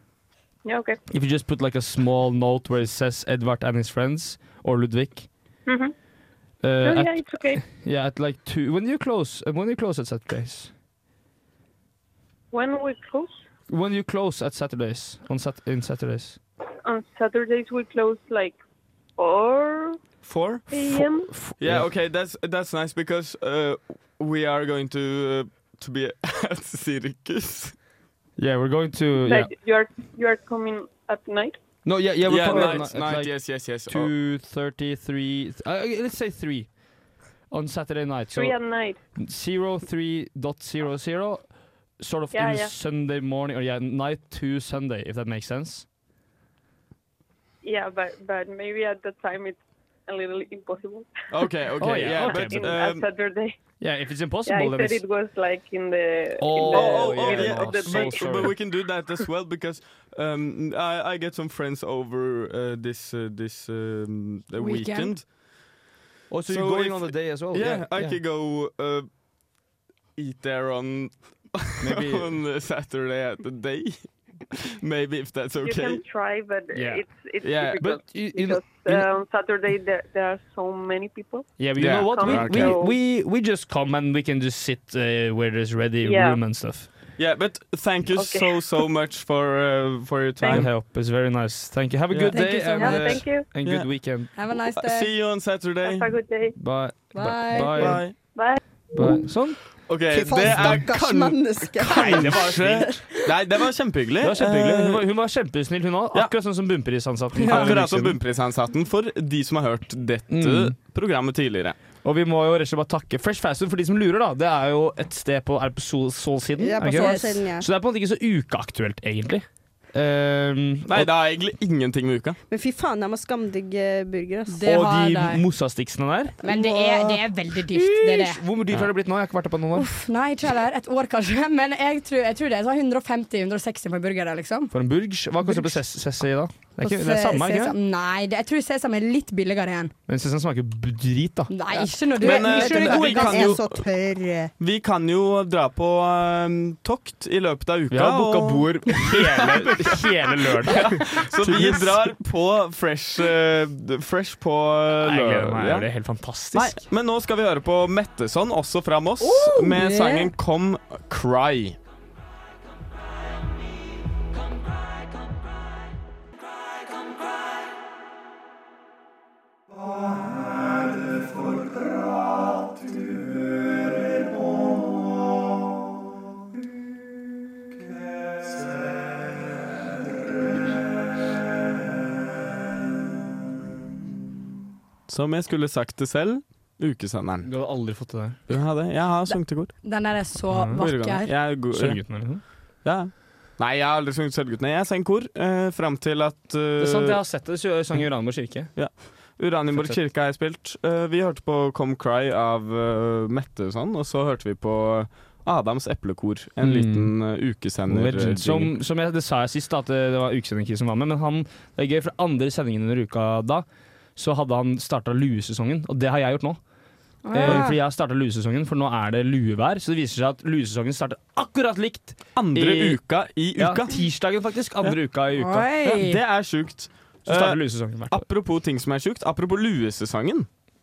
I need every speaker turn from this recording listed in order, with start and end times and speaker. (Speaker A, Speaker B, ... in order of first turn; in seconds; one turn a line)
Speaker A: 0.6-1.0
Speaker B: 1.1-5.3
Speaker A: 5.7-5.9
Speaker B: 6.6-10.7
Speaker A: 6.8-7.6
Speaker A: 12.5-13.3
Speaker B: 13.7-16.4
Speaker A: 16.8-18.6
Speaker A: 19.2-20.0
Speaker C: 20.3-20.6
Speaker A: 20.7-21.3
Speaker B: 20.7-21.9
Speaker C: 21.6-27.8
Speaker B: 28.4-29.5
Speaker A: 29.2-31.6
Speaker B: 31.8-36.7
Speaker C: 32.2-34.1
Speaker B: 37.5-38.6
Speaker A: 38.3-39.0
Speaker B: 39.1-45.9
Speaker A: 42.3-42.7
Speaker A: 47.6-51.1
Speaker C: 51.3-53.0
Speaker B: 51.8-52.8
Speaker A: 52.1-53.6
Speaker B: 53.8-55.0
Speaker A: 54.5-58.5
Speaker B: 56.4-58.5
Speaker C: 56.7-65.2
Speaker D: 64.6-65.1
Speaker B: 66.3-68.2
Speaker C: 66.5-69.1
Speaker C: 70.2-76.0
Speaker B: 71.8-72.3
Speaker A: 75.6-83.0
Speaker B: 76.7-77.0
Speaker C: 77.4-77.8
Speaker B: 77.8-79.0
Speaker B: 81.6-86.9
Speaker C: 81.8-82.8
Speaker A: 86.0-86.4
Speaker C: 87.2-90.7
Speaker A: 88.1-88.6
Speaker B: 90.4-94.3
Speaker D: 92.3-93.3
Speaker A: 92.7-93.5
Speaker D: 94.3-95.1
Speaker C: 94.7-96.1
Speaker A: 95.8-96.5
Speaker B: 96.6-98.1
Speaker D: 97.1-98.0
Speaker C: 97.6-98.2
Speaker A: 98.2-98.6
Speaker B: 98.9-99.7
Speaker C: 99.9-105.0
Speaker E: 100.1-103.1
Speaker B: 101.9-102.4
Speaker B: 104.2-108.2
Speaker D: 107.4-107.7
Speaker C: 107.5-111.8
Speaker B: 110.3-110.7
Speaker B: 112.0-121.1
Speaker E: 116.6-117.7
Speaker D: 116.9-117.3
Speaker C: 120.9-122.4
Speaker E: 122.5-124.6
Speaker D: 124.5-125.4
Speaker B: 124.7-126.4
Speaker D: 126.4-128.4
Speaker E: 126.4-127.1
Speaker B: 127.7-129.9
Speaker D: 129.7-134.7
Speaker B: 134.7-137.7
Speaker D: 135.4-135.8
Speaker D: 136.8-139.9
Speaker B: 140.1-141.5
Speaker D: 141.5-143.5
Speaker E: 141.8-144.5
Speaker C: 142.2-143.8
Speaker C: 144.6-155.9
Speaker B: 147.9-151.9
Speaker B: 155.0-156.8
Speaker C: 156.5-161.8
Speaker D: 159.2-160.3
Speaker C: 185.1-187.5
Speaker B: 187.4-188.4
Speaker C: 188.5-189.7
Speaker D: 189.3-191.3
Speaker C: 190.8-192.2
Speaker B: 191.7-192.4
Speaker C: 192.8-197.2
Speaker B: 196.8-198.7
Speaker C: 198.7-208.7
Speaker B: 206.6-207.1
Speaker B: 207.9-213.6
Speaker B: 214.2-216.6
Speaker D: 217.2-217.8
Speaker B: 217.3-223.0
Speaker C: 222.3-224.0
Speaker B: 223.6-225.7
Speaker D: 225.3-226.2
Speaker C: 225.8-230.5
Speaker B: 227.2-228.2